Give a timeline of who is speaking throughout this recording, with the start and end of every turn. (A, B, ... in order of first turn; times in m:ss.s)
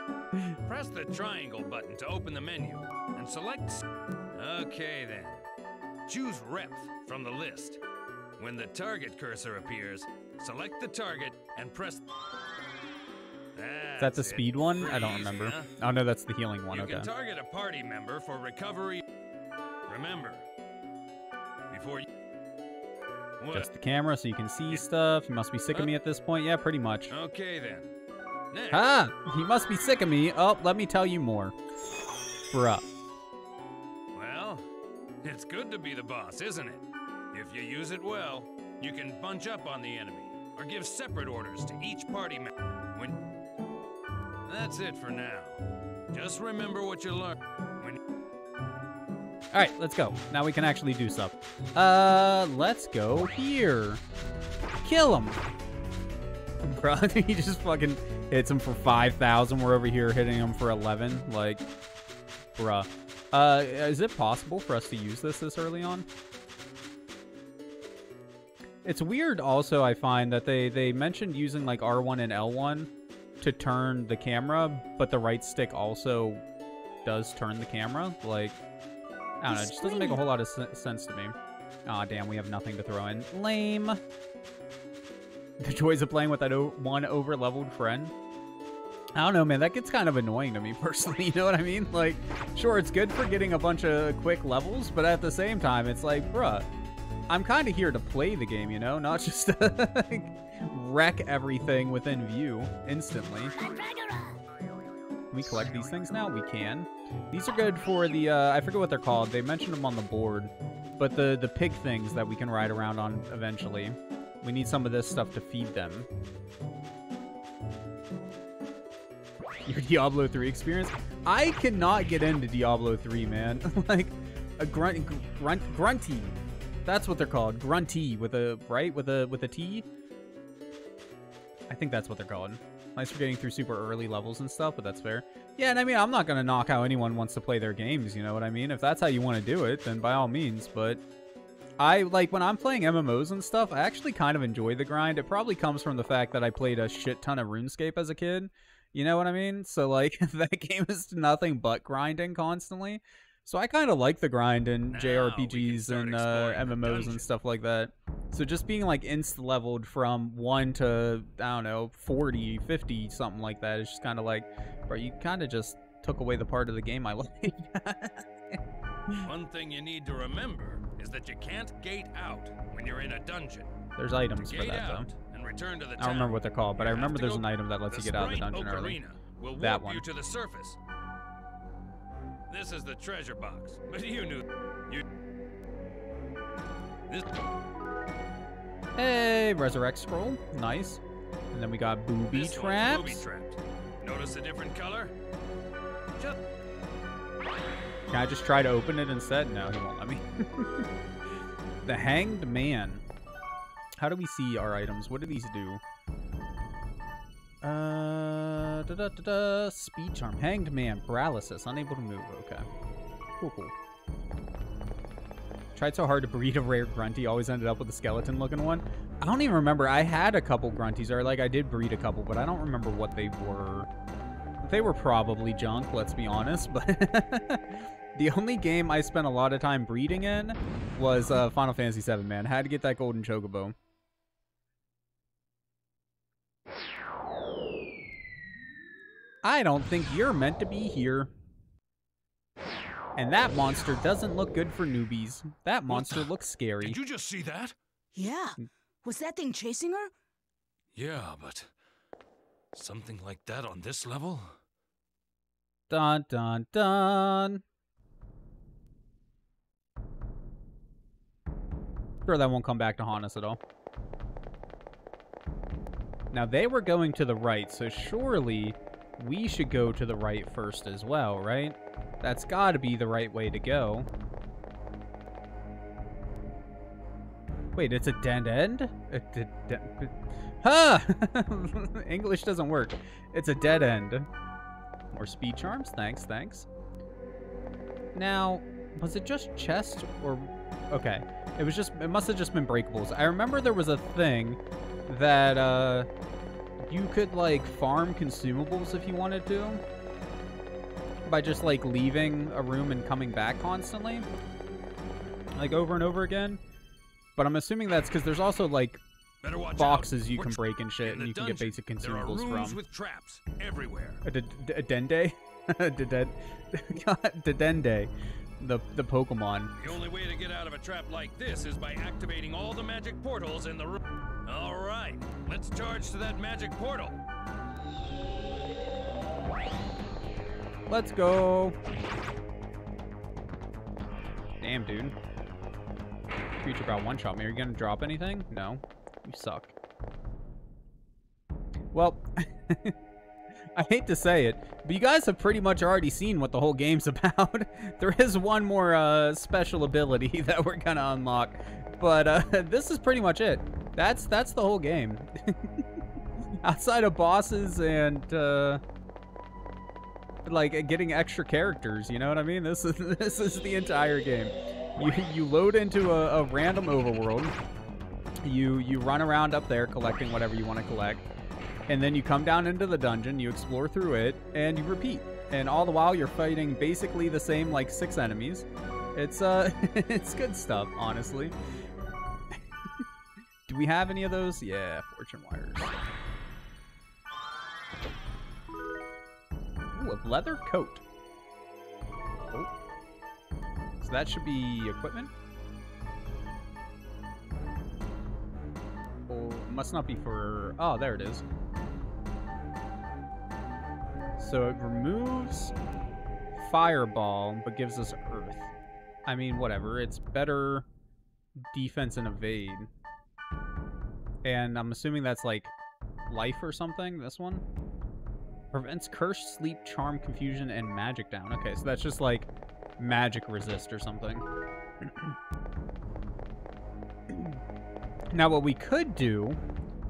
0:00.7-0:05.4 A
0:06.1-0:07.8 A
0:08.4-0:12.0 A
0:13.6-0:15.7 A
0:14.0-0:17.1 B
0:16.7-0:19.0 A
0:19.9-0:20.4 A
0:21.7-0:22.1 A
0:23.4-0:23.7 A
0:23.5-0:27.1 B
0:27.1-0:28.0 A
0:28.5-0:28.9 A
0:28.7-0:31.6 B
0:32.5-0:32.8 B
0:34.2-0:34.7 A
0:35.2-0:43.2 A
0:44.5-0:48.0 A
0:49.5-0:54.0 B
0:54.8-0:55.4 B
0:56.6-1:01.6 B
1:02.6-1:06.1 B
1:08.8-1:12.9 B
1:13.4-1:16.4 B
1:17.0-1:18.6 B
1:19.4-1:21.4 B
1:21.9-1:24.0 B
1:25.6-1:28.1 B
1:29.2-1:36.7 B
1:37.3-1:43.5 B
1:45.3-1:56.1 B
1:59.7-2:09.9 B
2:11.7-2:21.0 B
2:21.8-2:49.3 B
2:34.9-2:37.3 A
2:49.2-2:53.7 A
2:54.0-2:55.1 B
2:54.4-3:00.8 A
2:56.0-2:59.0 B
2:59.6-3:00.0 B
3:02.5-3:05.0 A
3:09.0-3:11.0 B
3:11.5-3:13.2 B
3:12.3-3:15.1 A
3:18.1-3:20.8 B
3:21.9-3:23.0 B
3:24.0-3:25.8 B
3:27.6-3:32.7 B
3:33.4-3:33.7 B
3:35.8-3:43.9 B
3:44.6-3:53.8 B
3:59.4-4:01.3 B
4:03.2-4:07.0 B
4:05.9-4:07.8 A
4:08.1-4:10.1 C
4:11.0-4:11.7 A
4:12.7-4:14.6 A
4:15.9-4:17.6 B
4:22.3-4:23.6 B
4:26.3-4:34.1 B
4:37.8-4:44.3 B
4:45.1-4:46.7 B
4:48.2-4:56.1 B
4:56.8-4:59.8 B
5:01.3-5:04.3 B
5:05.6-5:06.6 B
5:07.4-5:09.0 B
5:09.4-5:14.2 A
5:09.8-5:12.8 B
5:14.2-5:19.8 B
5:19.8-5:27.2 A
5:30.9-5:31.8 B
5:34.6-5:35.2 B
5:36.6-5:39.7 B
5:41.9-5:43.0 B
5:43.8-5:55.8 B
5:56.6-5:58.8 B
6:00.4-6:07.6 B
6:08.4-6:11.3 B
6:11.9-6:21.6 B
6:23.7-6:25.9 B
6:29.9-6:31.0 B
6:34.0-6:35.3 B
6:39.3-6:41.4 B
6:44.4-6:45.7 B
6:46.6-6:48.7 B
6:49.3-6:50.9 B
6:51.7-6:52.9 B
6:54.4-6:55.7 B
6:56.3-6:57.6 B
6:58.7-7:04.4 B
7:05.0-7:05.4 B
7:07.3-7:07.6 B
7:08.3-7:09.6 B